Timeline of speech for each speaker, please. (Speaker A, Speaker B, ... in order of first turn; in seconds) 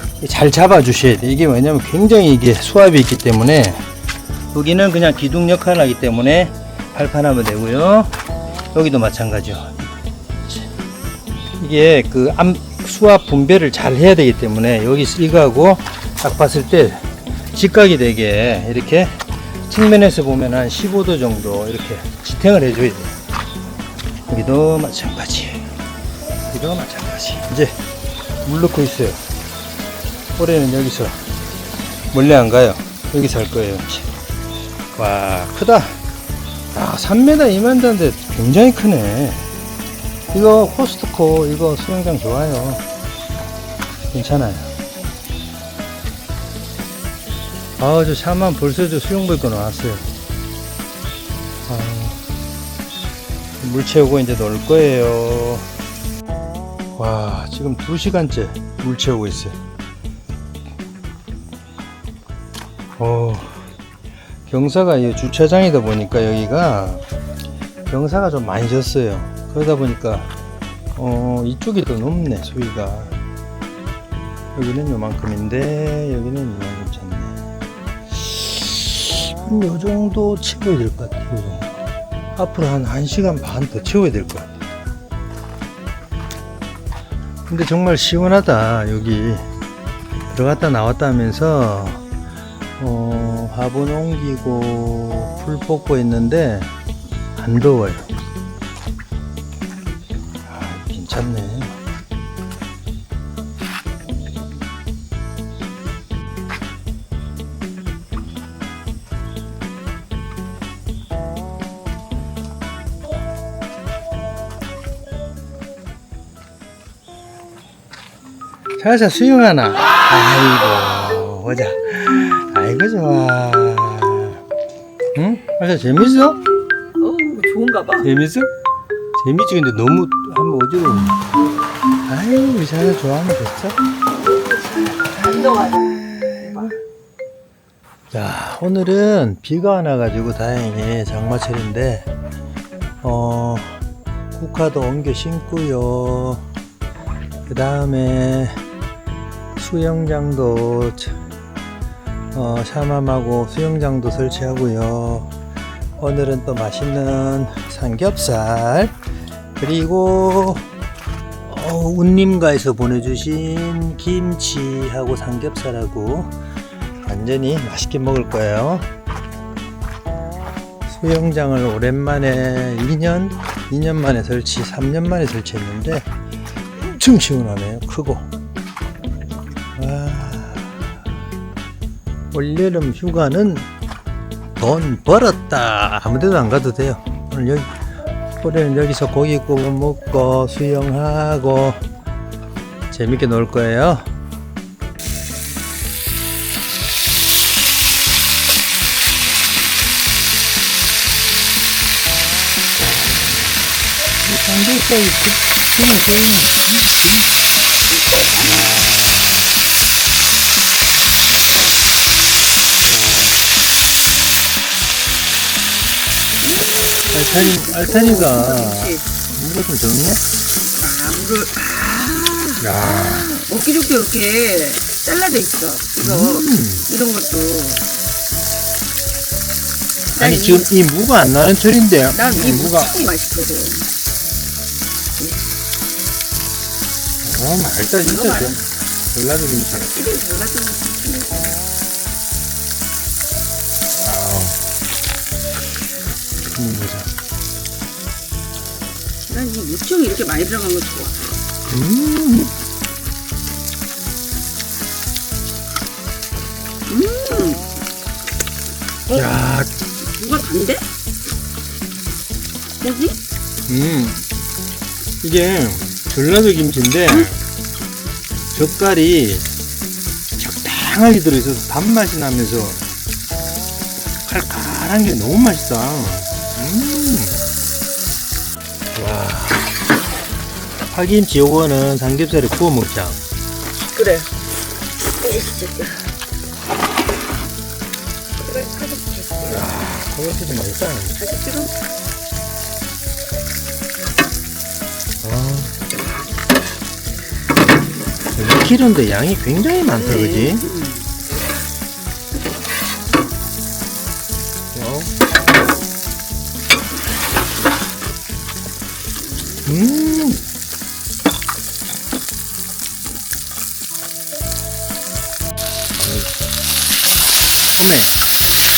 Speaker A: 0.2-3.9, 4.5-8.1, 8.7-9.9, 11.6-23.1, 24.3-25.7, 26.5-27.8, 28.4-29.2, 30.4-31.2, 32.1-34.1, 34.9-36.0, 36.7-39.4, 40.3-42.8, 44.1-44.7, 47.8-50.0, 51.7-52.2, 53.6-55.7, 56.9-59.6, 63.0-63.6, 64.5-67.0, 67.9-70.3, 70.9-73.1, 74.5-77.4, 78.1-81.8, 82.3-84.6, 87.5-89.4, 90.3-92.0, 92.8-96.7, 97.3-98.1, 100.5-101.8, 118.8-124.4, 125.1-126.4, 128.0-128.5, 129.2-131.3, 132.0-133.8, 138.1-142.1, 143.0-143.8, 144.3-146.4, 147.5-148.6, 149.6-151.2, 152.3-155.3, 156.0-158.9, 159.6-160.7, 161.5-166.3, 167.0-168.9, 170.8-176.1, 176.8-178.3, 179.8-180.8, 182.3-183.7, 184.6-187.7, 188.4-191.8, 192.9-194.1, 204.2-207.3, 208.4-209.5, 212.8-213.3, 217.1-220.2, 222.6-223.3, 226.0-226.9, 230.2-233.0, 237.2-239.9, 243.9-244.6, 246.4-247.1, 251.7-252.5, 259.1-259.7, 263.7-264.2, 265.2-267.4, 268.5-269.5, 270.4-272.8, 274.2-277.4, 278.9-279.7, 280.9-283.2, 289.5-291.2, 295.2-295.7, 298.3-300.7, 304.7-305.1, 309.6-310.4, 316.0-316.3, 317.8-318.1
Speaker B: 127.0-128.1, 134.3-136.7, 207.9-208.8, 216.4-219.1, 220.6-227.8, 230.1-230.7, 232.1-233.9, 235.2-235.5, 238.0-238.6, 239.7-241.6, 249.3-251.4, 256.9-257.7, 260.0-260.8, 262.8-263.2, 283.8-284.4, 285.1-286.1, 288.4-289.7, 291.1-291.7, 299.9-301.1